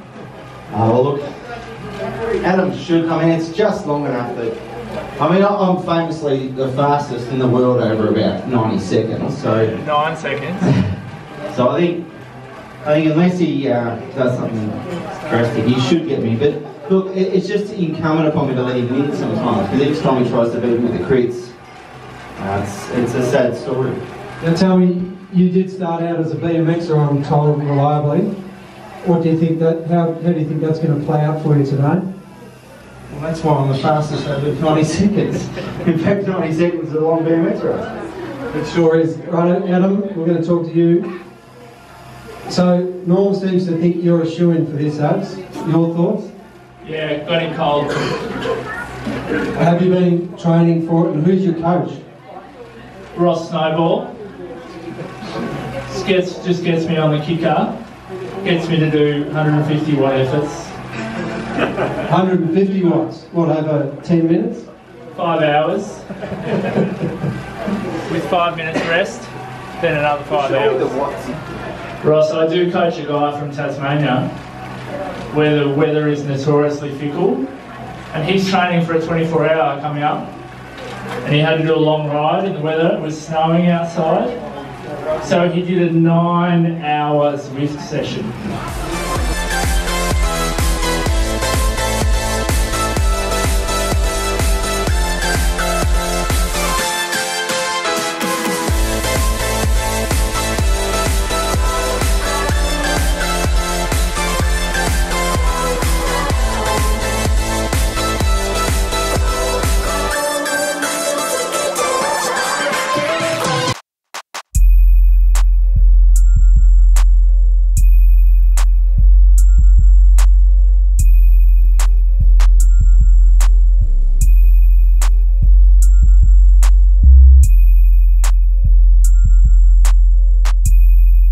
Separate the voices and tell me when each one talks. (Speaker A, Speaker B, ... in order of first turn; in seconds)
Speaker A: 0.7-1.3, 2.4-4.5, 5.2-9.7, 10.6-10.9, 11.5-12.1, 12.8-21.5, 22.4-24.0, 33.1-37.9, 70.4-71.3
Speaker B: 9.7-10.7, 46.8-48.1, 53.1-54.1, 55.9-57.7, 58.4-60.7, 65.1-66.8, 68.1-71.0, 72.0-74.3, 75.3-77.4, 78.1-80.3, 81.2-84.3, 85.2-88.3
Speaker C: 24.4-28.3, 29.0-32.0, 38.5-41.1, 42.5-46.3, 49.5-52.0, 62.1-64.7